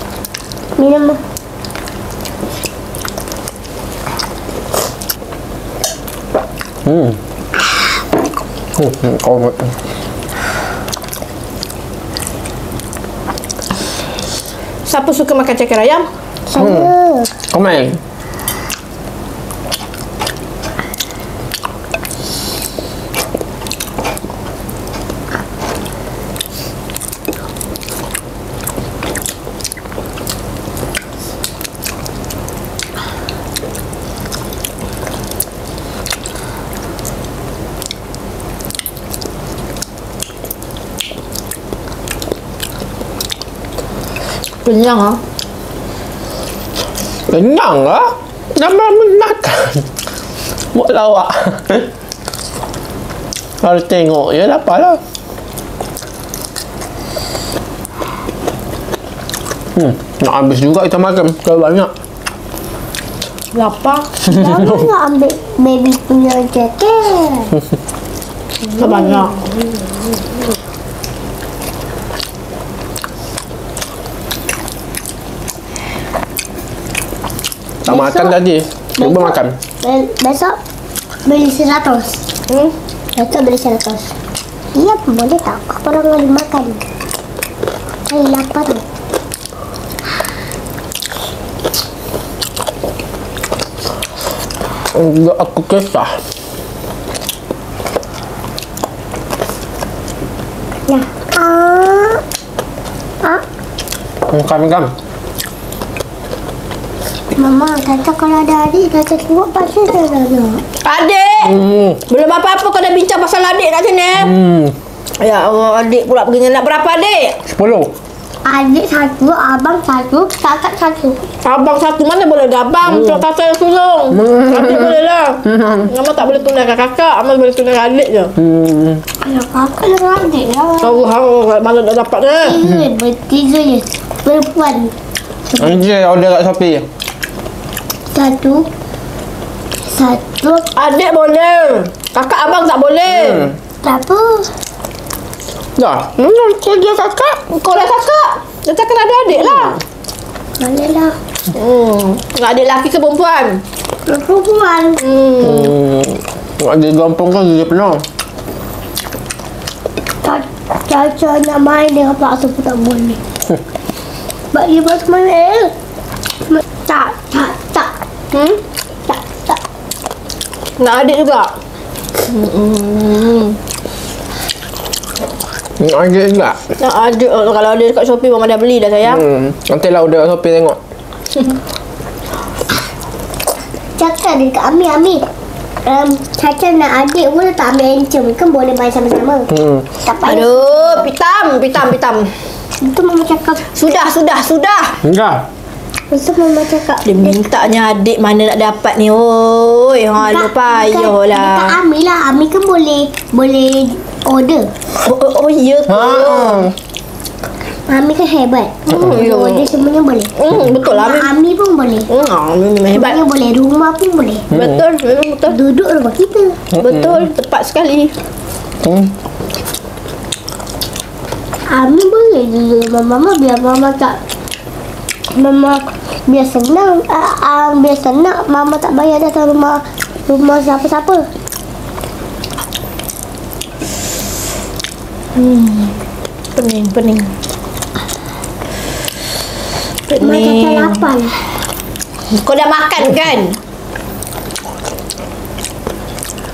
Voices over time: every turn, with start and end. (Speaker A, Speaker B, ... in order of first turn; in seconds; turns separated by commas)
Speaker A: 0.8-1.2, Speaker B: 6.8-7.2, Speaker B: 8.8-9.7, Speaker C: 14.8-16.1, Speaker A: 16.5-17.3, Speaker B: 16.6-16.9, Speaker B: 17.5-18.0, Speaker C: 44.6-45.2, Speaker B: 47.3-49.9, Speaker B: 50.7-51.9, Speaker B: 53.6-55.0, Speaker B: 59.7-61.9, Speaker C: 63.5-64.1, Speaker A: 64.2-67.5, Speaker B: 64.3-64.9, Speaker C: 68.8-69.4, Speaker A: 68.8-69.2, Speaker B: 77.8-79.5, Speaker C: 77.8-78.3, Speaker A: 79.0-80.6, Speaker A: 81.2-82.2, Speaker C: 82.5-82.7, Speaker A: 83.1-84.1, Speaker A: 84.7-86.8, Speaker A: 88.1-88.8, Speaker B: 94.9-96.2, Speaker A: 100.9-102.2, Speaker B: 104.3-104.9, Speaker A: 107.3-110.6, Speaker C: 110.8-111.6, Speaker B: 111.4-112.0, Speaker C: 112.1-114.3, Speaker B: 114.2-114.7, Speaker C: 115.2-117.4, Speaker B: 117.5-117.9, Speaker A: 118.4-121.2, Speaker C: 121.4-128.3, Speaker B: 122.9-123.2, Speaker B: 124.1-125.0, Speaker B: 125.5-125.9, Speaker B: 128.4-129.0, Speaker A: 129.2-131.1, Speaker C: 130.8-132.6, Speaker A: 132.4-134.9, Speaker B: 135.6-136.9, Speaker A: 138.1-138.7, Speaker A: 139.9-140.7, Speaker C: 140.7-143.5, Speaker B: 143.1-143.5, Speaker A: 143.8-144.5, Speaker B: 145.8-147.4, Speaker C: 147.5-149.8, Speaker A: 150.6-151.2, Speaker C: 151.5-153.6, Speaker A: 154.1-155.0, Speaker C: 155.0-155.7, Speaker B: 155.4-158.0, Speaker A: 160.2-163.2, Speaker A: 164.5-165.7, Speaker A: 166.5-167.9, Speaker C: 168.3-168.6, Speaker A: 169.1-169.6, Speaker C: 170.8-171.5, Speaker C: 172.3-173.6, Speaker B: 175.8-176.6, Speaker C: 176.8-179.2, Speaker B: 179.1-180.8, Speaker A: 184.0-185.2, Speaker A: 185.8-189.5, Speaker B: 189.5-189.8, Speaker A: 190.0-191.1, Speaker C: 190.2-192.3, Speaker A: 192.8-193.6, Speaker C: 193.7-195.0, Speaker B: 195.0-195.4, Speaker A: 196.1-197.4, Speaker C: 197.0-201.8, Speaker A: 200.2-204.7, Speaker C: 205.0-206.7, Speaker B: 205.9-206.7, Speaker A: 207.9-210.3, Speaker C: 208.9-209.7, Speaker C: 210.3-211.3, Speaker A: 210.9-212.1, Speaker C: 212.1-213.2, Speaker A: 212.9-214.4, Speaker B: 214.5-214.8, Speaker C: 214.5-215.6, Speaker A: 215.5-216.6, Speaker C: 216.7-218.1, Speaker B: 216.7-217.0, Speaker B: 218.8-219.1, Speaker A: 221.7-224.2, Speaker A: 225.3-231.3, Speaker C: 235.3-235.9, Speaker C: 236.6-237.3, Speaker C: 240.1-241.1, Speaker A: 240.2-241.4, Speaker C: 242.3-243.6